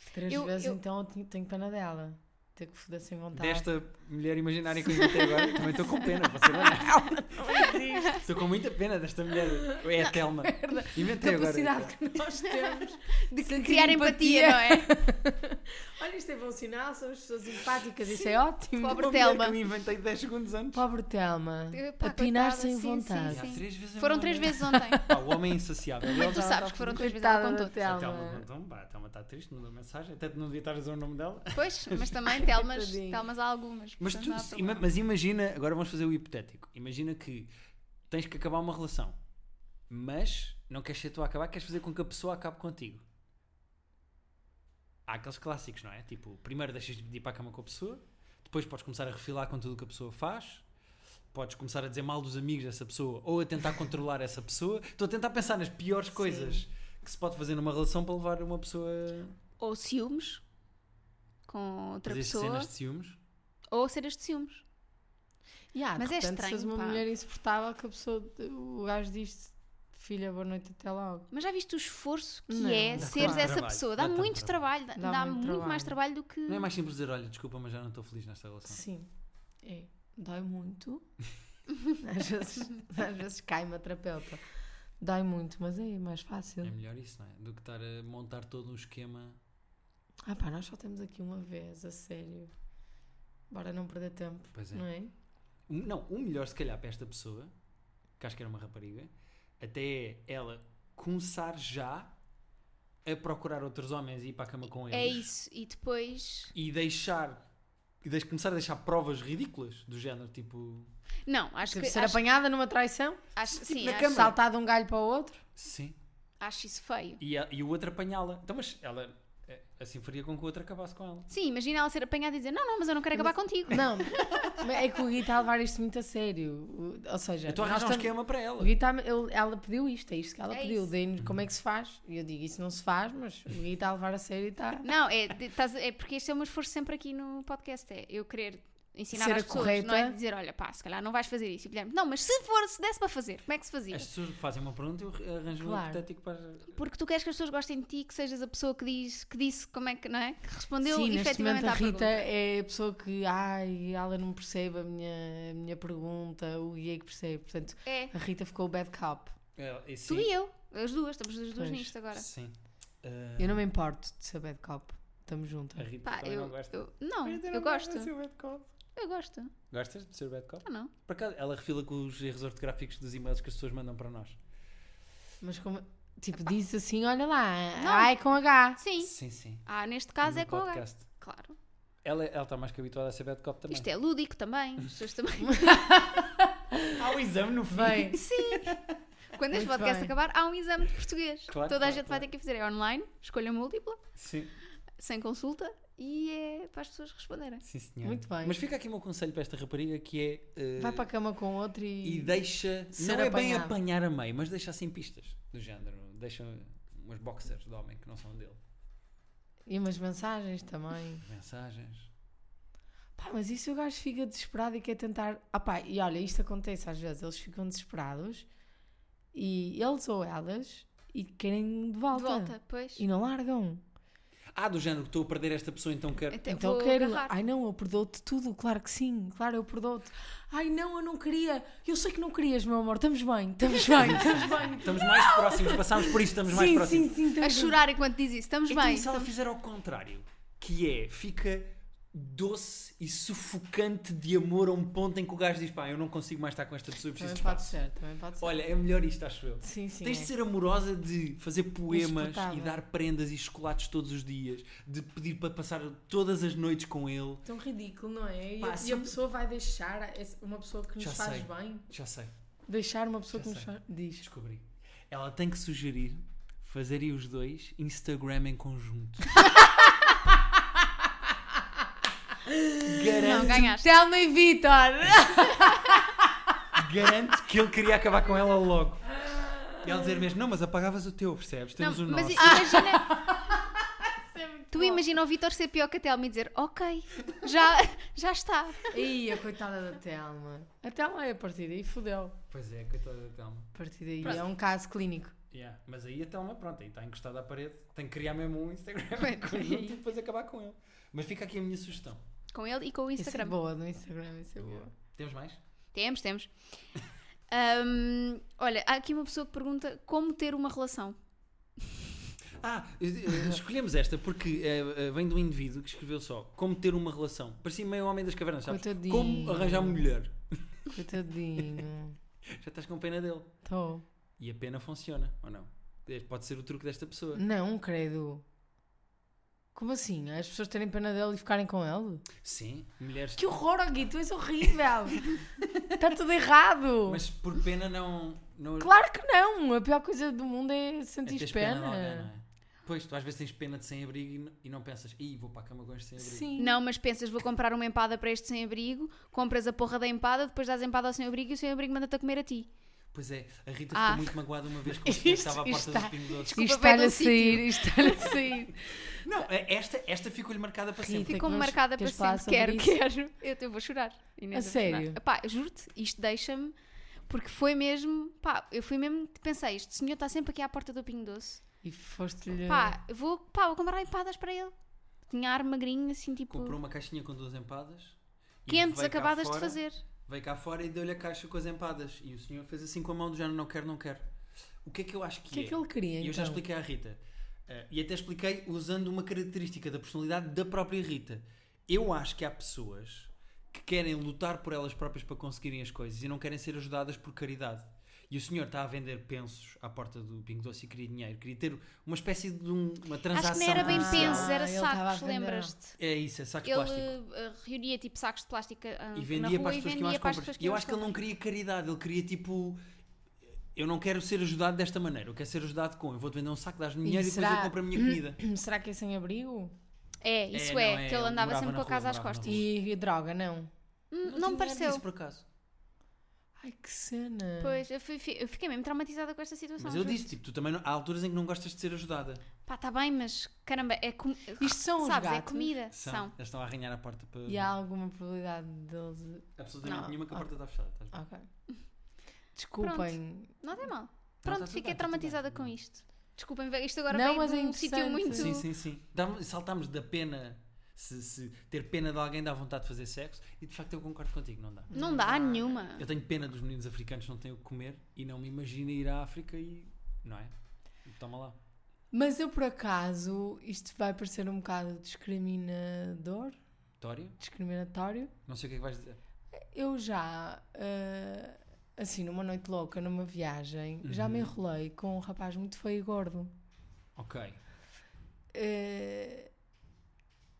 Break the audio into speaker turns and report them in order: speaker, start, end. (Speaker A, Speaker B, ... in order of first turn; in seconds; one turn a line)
Speaker A: 0.1-3.7
Speaker B: 0.3-0.8
Speaker C: 3.3-7.4
Speaker A: 6.3-8.2
Speaker C: 8.1-11.9
Speaker A: 9.7-19.1
Speaker B: 12.6-14.9
Speaker B: 18.8-19.6
Speaker C: 18.9-20.8
Speaker A: 20.7-23.5
Speaker B: 21.7-25.1
Speaker C: 23.3-27.1
Speaker A: 24.5-25.2
Speaker B: 26.1-27.8
Speaker A: 26.1-28.4
Speaker C: 27.8-32.3
Speaker B: 31.5-34.9
Speaker A: 32.3-33.2
Speaker C: 34.0-37.5
Speaker C: 38.1-39.2
Speaker C: 39.9-43.0
Speaker C: 45.0-50.6
Speaker C: 51.3-59.4
Speaker A: 56.1-56.6
Speaker B: 59.6-60.4
Speaker B: 61.5-62.7
Speaker C: 62.0-63.2
Speaker B: 63.7-64.6
Speaker A: 65.7-71.3
Speaker B: 66.0-67.0
Speaker B: 71.3-76.7
Speaker A: 72.5-73.5
Speaker C: 73.0-74.6
Speaker A: 75.0-76.0
Speaker C: 76.5-78.8
Speaker A: 78.7-79.1
Speaker A: 79.6-81.0
Speaker A: 81.9-84.4
Speaker A: 85.0-86.7
Speaker C: 86.6-89.4
Speaker A: 90.2-92.5
Speaker A: 93.5-95.1
Speaker C: 94.5-94.8
Speaker C: 95.7-97.5
Speaker C: 98.2-102.1
Speaker C: 103.0-105.3
Speaker B: 104.9-106.5
Speaker C: 106.5-107.4
Speaker C: 108.0-110.9
Speaker B: 111.2-112.2
Speaker A: 111.7-115.4
Speaker B: 113.3-114.3
Speaker C: 113.7-114.3
Speaker C: 115.5-116.0
Speaker B: 116.4-117.2
Speaker C: 117.2-121.3
Speaker B: 121.3-124.5
Speaker A: 123.1-134.8
Speaker C: 127.5-128.7
Speaker B: 130.5-130.9
Speaker B: 134.8-144.1
Speaker A: 139.1-140.2
Speaker C: 143.9-146.8
Speaker A: 145.6-146.0
Speaker B: 146.7-152.3
Speaker A: 150.8-159.3
Speaker B: 157.8-158.1
Speaker C: 159.6-160.3
Speaker B: 160.1-162.3
Speaker A: 161.6-161.9
Speaker C: 162.1-163.7
Speaker A: 163.4-165.9
Speaker C: 165.8-168.7
Speaker B: 166.0-168.1
Speaker B: 168.9-169.5
Speaker C: 169.7-174.4
Speaker B: 170.6-170.9
Speaker A: 175.4-178.8
Speaker B: 177.8-178.1
Speaker B: 178.8-179.1
Speaker C: 179.0-179.6
Speaker B: 179.7-181.6
Speaker C: 180.2-181.0
Speaker C: 182.0-183.9
Speaker B: 183.7-185.9
Speaker A: 185.4-187.0
Speaker C: 186.9-188.9
Speaker A: 187.7-188.2
Speaker B: 188.1-188.8
Speaker B: 189.3-194.0
Speaker A: 189.5-190.1
Speaker C: 191.5-192.3
Speaker C: 194.2-194.5
Speaker B: 195.0-197.6
Speaker C: 197.6-201.1
Speaker A: 198.0-198.6
Speaker A: 200.8-203.8
Speaker C: 202.0-208.6
Speaker A: 209.7-211.2
Speaker C: 211.2-212.1
Speaker A: 213.2-218.5
Speaker A: 219.3-223.8
Speaker B: 222.1-223.0
Speaker C: 224.5-226.4
Speaker B: 226.3-227.3
Speaker A: 226.5-237.8
Speaker C: 233.9-237.2
Speaker B: 237.4-239.3
Speaker C: 238.7-247.8
Speaker A: 247.1-248.6
Speaker C: 248.4-257.4
Speaker A: 249.6-250.3
Speaker A: 251.9-252.8
Speaker A: 257.4-261.9
Speaker C: 258.6-259.1
Speaker C: 261.0-262.3
Speaker A: 262.7-264.3
Speaker C: 263.4-263.7
Speaker C: 264.2-269.4
Speaker A: 272.4-276.2
Speaker C: 272.8-273.7
Speaker B: 273.2-273.9
Speaker C: 276.7-279.1
Speaker C: 279.8-283.1
Speaker B: 281.8-283.2
Speaker A: 282.4-285.0
Speaker B: 284.7-289.0
Speaker A: 288.9-292.4
Speaker C: 292.5-293.7
Speaker A: 293.7-295.3
Speaker C: 294.2-294.5
Speaker C: 295.5-302.2
Speaker B: 299.2-300.0
Speaker B: 302.5-303.6
Speaker A: 303.2-304.9
Speaker C: 304.6-305.6
Speaker B: 305.9-306.5
Speaker B: 307.5-311.1
Speaker C: 312.6-320.9
Speaker A: 318.6-320.1
Speaker A: 320.9-322.2
Speaker C: 322.5-323.5
Speaker A: 323.6-324.0
Speaker C: 324.4-327.4
Speaker A: 327.3-328.4
Speaker A: 329.7-332.2
Speaker C: 332.4-333.5
Speaker A: 333.4-335.4
Speaker C: 334.6-335.9
Speaker A: 335.9-337.2
Speaker C: 337.0-338.9
Speaker A: 338.8-342.3
Speaker C: 341.2-346.5
Speaker A: 346.2-346.8
Speaker B: 346.6-352.7
Speaker C: 353.1-356.7
Speaker B: 353.9-354.3
Speaker A: 354.8-359.1
Speaker B: 356.5-358.4
Speaker C: 359.1-361.4
Speaker A: 361.0-363.0
Speaker B: 361.2-366.7
Speaker A: 364.5-365.2
Speaker B: 367.3-371.6
Speaker A: 371.8-373.0
Speaker B: 372.7-374.7
Speaker B: 375.3-376.8
Speaker C: 376.5-384.3
Speaker B: 378.7-380.0
Speaker C: 384.8-404.5
Speaker A: 385.5-386.6
Speaker B: 403.3-405.9
Speaker A: 403.7-405.8
Speaker C: 406.0-407.1
Speaker B: 406.6-411.2
Speaker C: 409.1-412.8
Speaker C: 413.7-418.4
Speaker A: 417.0-419.7
Speaker B: 420.2-422.6
Speaker C: 420.5-422.6
Speaker A: 422.4-423.7
Speaker B: 424.1-425.0
Speaker C: 424.2-425.4
Speaker A: 426.6-427.8
Speaker B: 427.6-430.2
Speaker C: 429.8-432.4
Speaker B: 432.6-436.3
Speaker A: 434.6-435.8
Speaker C: 435.9-437.7
Speaker A: 437.5-440.5
Speaker C: 439.6-441.1
Speaker B: 439.8-440.1
Speaker A: 441.1-441.4
Speaker A: 442.5-443.6
Speaker B: 442.8-448.7
Speaker C: 444.4-445.7
Speaker A: 447.1-448.5
Speaker C: 448.3-454.9
Speaker A: 454.9-455.8
Speaker B: 454.9-456.1
Speaker C: 455.9-460.5
Speaker C: 461.0-461.6
Speaker A: 462.1-466.6
Speaker C: 467.0-467.4
Speaker A: 467.4-468.3
Speaker C: 468.5-469.2
Speaker A: 469.5-476.5
Speaker C: 474.0-474.5
Speaker C: 477.1-477.6
Speaker A: 478.5-479.5